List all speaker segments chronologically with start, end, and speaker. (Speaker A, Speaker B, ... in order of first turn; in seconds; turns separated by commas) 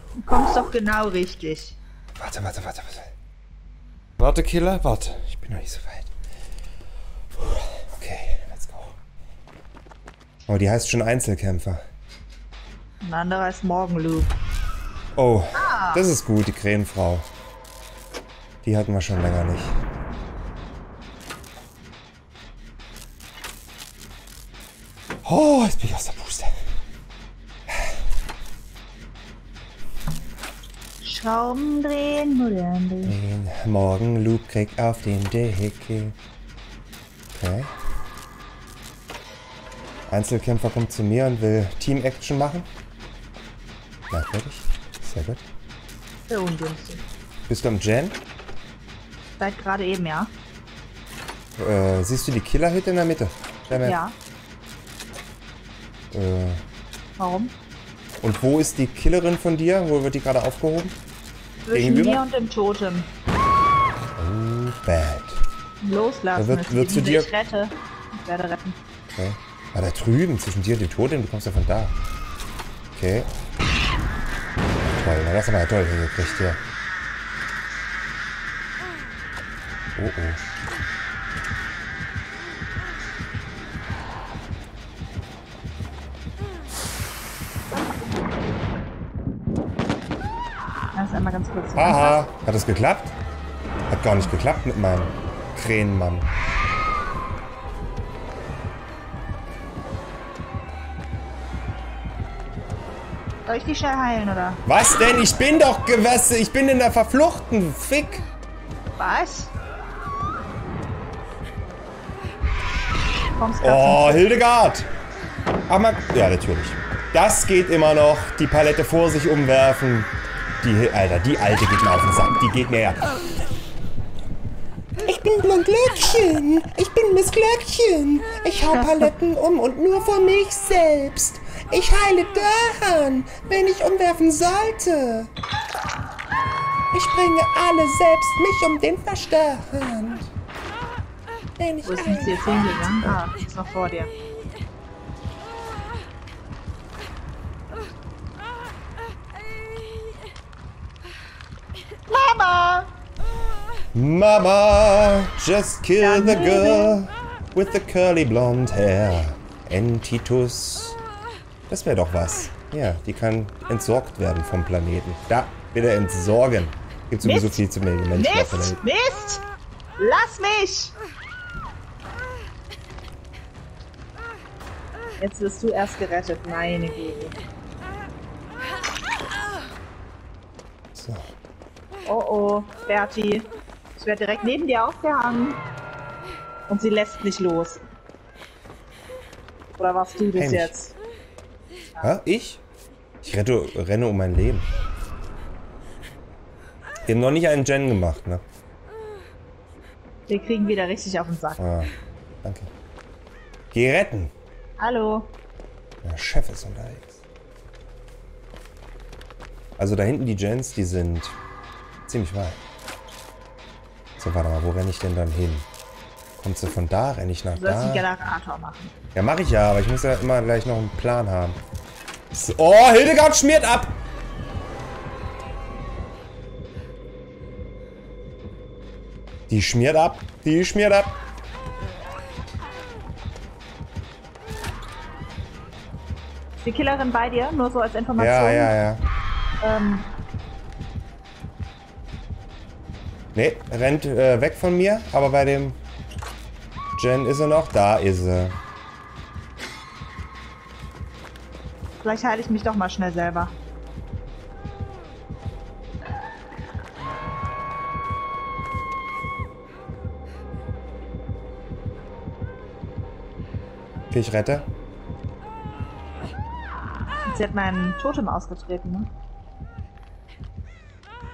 Speaker A: 0.2-1.8, Speaker B: 2.1-3.1, Speaker B: 4.2-6.1, Speaker B: 7.4-8.9, Speaker B: 10.5-11.8, Speaker A: 13.0-14.3, Speaker B: 15.2-17.3, Speaker A: 15.5-16.1, Speaker B: 18.6-19.8, Speaker B: 25.2-26.5, Speaker A: 31.0-33.1, Speaker B: 33.0-36.1, Speaker B: 37.3-37.7, Speaker B: 40.1-42.7, Speaker B: 44.1-45.4, Speaker A: 46.3-47.0, Speaker B: 47.5-48.2, Speaker A: 49.4-50.3, Speaker B: 51.6-54.0, Speaker A: 53.8-54.1, Speaker B: 56.1-56.6, Speaker A: 57.2-57.5, Speaker B: 58.2-61.0, Speaker A: 61.6-63.1, Speaker B: 61.7-62.2, Speaker B: 64.2-65.4, Speaker A: 65.8-68.8, Speaker B: 66.3-67.3, Speaker B: 69.1-71.9, Speaker B: 72.9-73.3, Speaker B: 74.9-76.6, Speaker B: 79.9-80.4, Speaker A: 90.9-92.2, Speaker B: 91.8-93.1, Speaker B: 93.9-96.3, Speaker A: 103.5-104.6, Speaker B: 104.7-108.2, Speaker A: 109.0-109.5, Speaker A: 113.3-114.2, Speaker B: 113.6-114.9, Speaker B: 115.7-120.1, Speaker B: 120.6-123.3, Speaker B: 125.0-135.3, Speaker A: 128.7-129.1, Speaker B: 136.9-140.3, Speaker B: 141.6-143.1, Speaker A: 141.8-144.1, Speaker A: 152.1-152.9, Speaker B: 153.9-161.0, Speaker A: 156.0-157.0, Speaker B: 161.7-168.8, Speaker A: 167.2-167.6, Speaker A: 168.1-169.4, Speaker A: 170.0-170.9, Speaker A: 175.2-177.3, Speaker B: 180.9-181.3, Speaker A: 182.1-185.6, Speaker A: 186.7-187.8, Speaker A: 189.8-190.9, Speaker B: 190.3-190.7, Speaker B: 192.0-192.6, Speaker B: 193.2-194.7, Speaker B: 197.1-198.4, Speaker A: 200.3-201.6, Speaker B: 201.6-202.7, Speaker B: 203.7-204.3, Speaker A: 204.8-205.3, Speaker B: 206.0-207.2, Speaker B: 209.8-211.4, Speaker B: 212.0-212.6, Speaker B: 214.2-215.7, Speaker B: 216.4-218.1, Speaker A: 217.5-218.9, Speaker B: 219.1-221.6, Speaker B: 222.3-224.0, Speaker B: 229.5-231.2, Speaker A: 236.6-238.7, Speaker B: 238.2-239.0, Speaker A: 239.6-240.1, Speaker B: 243.3-245.8, Speaker B: 246.9-248.6, Speaker A: 252.0-253.5, Speaker B: 264.1-264.7, Speaker A: 267.2-269.1